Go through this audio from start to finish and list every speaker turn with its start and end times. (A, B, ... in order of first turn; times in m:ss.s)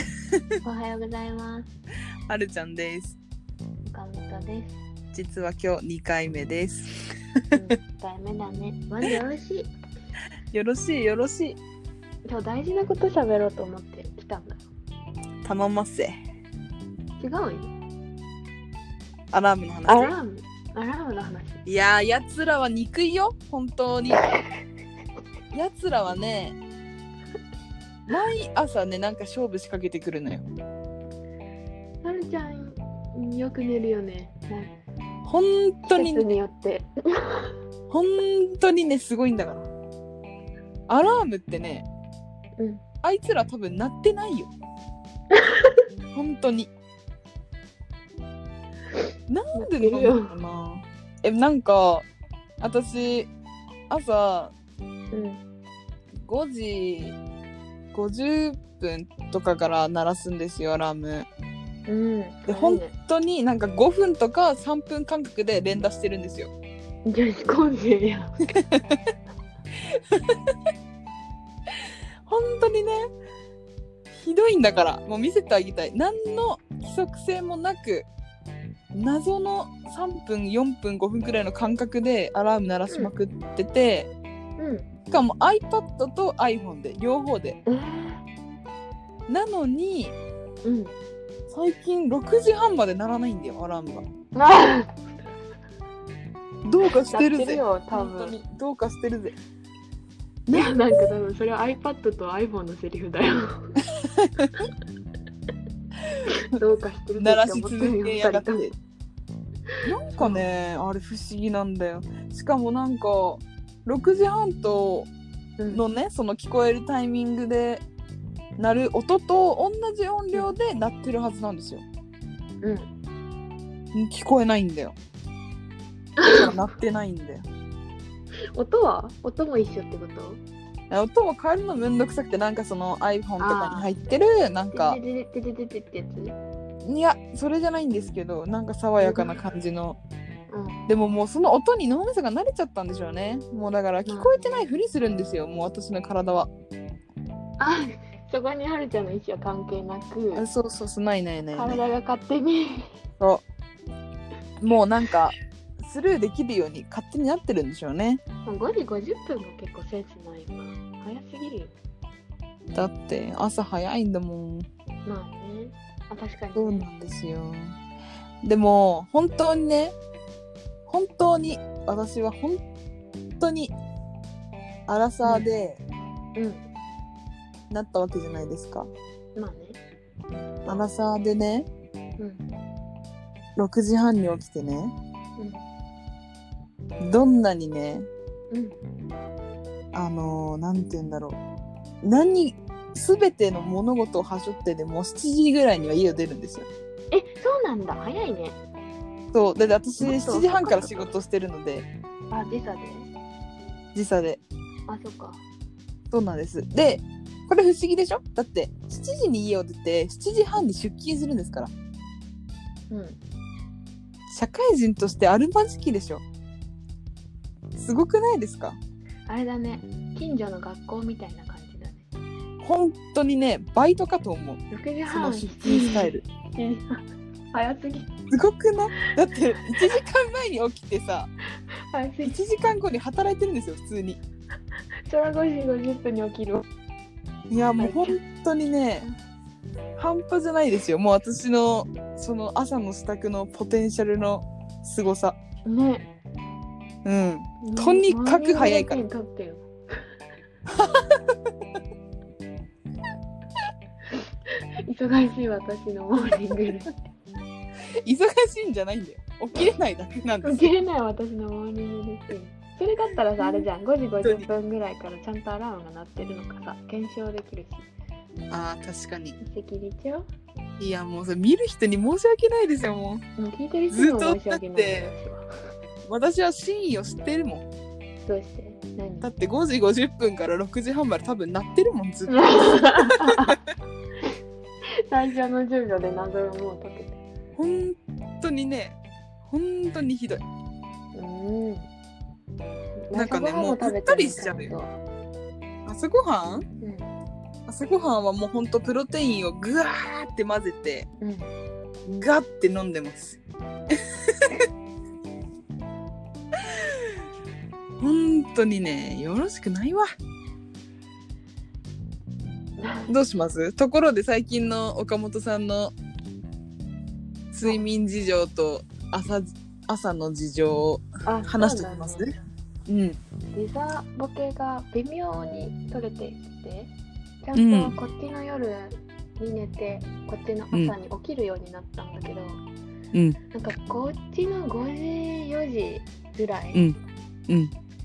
0:00.6-0:01.7 A
0:02.3-0:03.2 B
0:03.9-0:04.8 A
0:05.1-0:07.0 B
0:07.5-0:09.7 A
0:10.5-0:11.6 B
0:12.2-0:14.6 A
0:15.4-0:16.2 B
0:17.2-0:17.7 A
0:19.3-0:20.1 B
0:19.9-0:21.6 A
0:21.7-0:24.2 B
0:24.2-0:24.4 A
0:25.5-0:26.6 B
0:28.1-0:30.5 B
0:32.0-0:34.8 A
0:35.2-0:36.3 B
0:35.9-0:37.5 A
0:37.9-0:39.7 B
0:40.9-0:41.9 B
0:42.6-0:42.8 A
0:43.0-0:44.5 B
0:45.3-0:45.8 A
0:46.1-0:46.7 B
0:49.3-0:52.1 B
0:49.5-0:50.4 A
0:52.6-0:53.3 B
0:53.9-0:54.5 B
0:55.1-0:55.4 A
0:56.2-0:57.2 B
0:57.9-1:01.3 B
1:01.9-1:02.9 A
1:02.5-1:06.5 B
1:07.0-1:08.5 A
1:10.1-1:10.4 B
1:12.3-1:13.0 B
1:14.1-1:18.1 B
1:18.9-1:24.1 B
1:24.6-1:24.9 A
1:25.1-1:27.6 B
1:27.7-1:28.2 A
1:29.3-1:30.2 B
1:30.6-1:30.9 A
1:31.5-1:34.0 B
1:34.4-1:35.0 A
1:36.6-1:39.4 B
1:37.1-1:38.4 A
1:40.5-1:41.0 B
1:40.5-1:43.8 A
1:44.1-1:44.5 B
1:46.5-1:48.7 A
1:47.2-1:48.7 B
1:49.8-1:55.1 B
1:55.6-1:55.8 A
1:55.7-1:57.8 B
1:58.6-2:01.8 B
2:02.6-2:02.9 A
2:03.9-2:05.0 B
2:06.2-2:06.5 A
2:06.3-2:07.5 B
2:08.6-2:10.4 A
2:10.9-2:15.0 B
2:13.4-2:13.9 A
2:14.7-2:16.4 A
2:16.8-2:20.0 B
2:19.0-2:19.4 A
2:20.5-2:20.8 A
2:20.9-2:26.5 B
2:24.1-2:24.5 A
2:27.6-2:30.4 A
2:30.3-2:31.8 B
2:31.5-2:32.9 A
2:34.6-2:38.2 B
2:38.5-2:41.8 A
2:42.7-2:44.7 B
2:45.1-2:46.9 A
2:46.6-2:47.8 B
2:48.4-2:50.0 B
2:50.9-2:52.6 B
2:53.4-2:53.7 B
2:54.9-2:55.8 B
2:56.4-2:56.6 A
2:57.7-2:58.9 B
2:59.4-2:59.8 A
3:00.3-3:00.9 A
3:00.7-3:01.7 B
3:02.2-3:02.4 A
3:03.6-3:04.9 B
3:05.4-3:05.6 A
3:07.0-3:08.1 B
3:08.5-3:08.8 A
3:09.9-3:11.4 B
3:12.0-3:16.7 B
3:17.1-3:18.6 A
3:19.3-3:21.9 B
3:20.0-3:21.2 A
3:22.3-3:23.1 A
3:24.0-3:24.4 B
3:24.9-3:25.4 A
3:26.1-3:31.7 B
3:32.9-3:33.2 A
3:34.3-3:36.2 B
3:37.8-3:38.8 B
3:39.3-3:42.1 A
3:42.6-3:46.3 B
3:44.7-3:47.0 A
3:47.5-3:48.1 A
3:48.3-3:51.3 B
3:51.9-3:52.4 A
3:52.2-3:54.2 B
3:55.1-3:56.6 A
3:57.5-3:59.1 B
3:57.8-3:58.2 A
4:00.0-4:05.4 B
4:05.6-4:06.1 A
4:07.0-4:09.0 B
4:07.6-4:09.7 A
4:10.7-4:11.4 B
4:14.9-4:17.0 A
4:18.0-4:20.7 B
4:20.4-4:27.9 A
4:23.4-4:23.7 B
4:28.5-4:29.4 B
4:29.4-4:30.3 A
4:30.8-4:33.2 B
4:33.4-4:35.5 A
4:33.9-4:35.1 B
4:36.1-4:37.6 B
4:38.2-4:39.3 A
4:39.2-4:43.6 B
4:42.3-4:43.6 A
4:45.1-4:47.2 A
4:47.6-4:50.4 B
4:51.1-4:51.9 A
4:53.1-4:55.0 A
4:53.1-4:54.7 B
4:55.9-4:56.6 B
4:56.8-4:57.1 A
4:57.7-5:01.1 B
5:01.2-5:01.5 A
5:02.1-5:03.4 B
5:04.2-5:04.6 B
5:06.7-5:07.0 B
5:08.0-5:10.1 B
5:12.8-5:13.1 A
5:13.1-5:15.9 B
5:17.5-5:22.3 B
5:21.3-5:22.3 A
5:22.9-5:23.2 B
5:23.5-5:26.9 A
5:27.4-5:32.6 A
5:27.6-5:28.0 B
5:33.1-5:33.4 B
5:33.5-5:36.8 A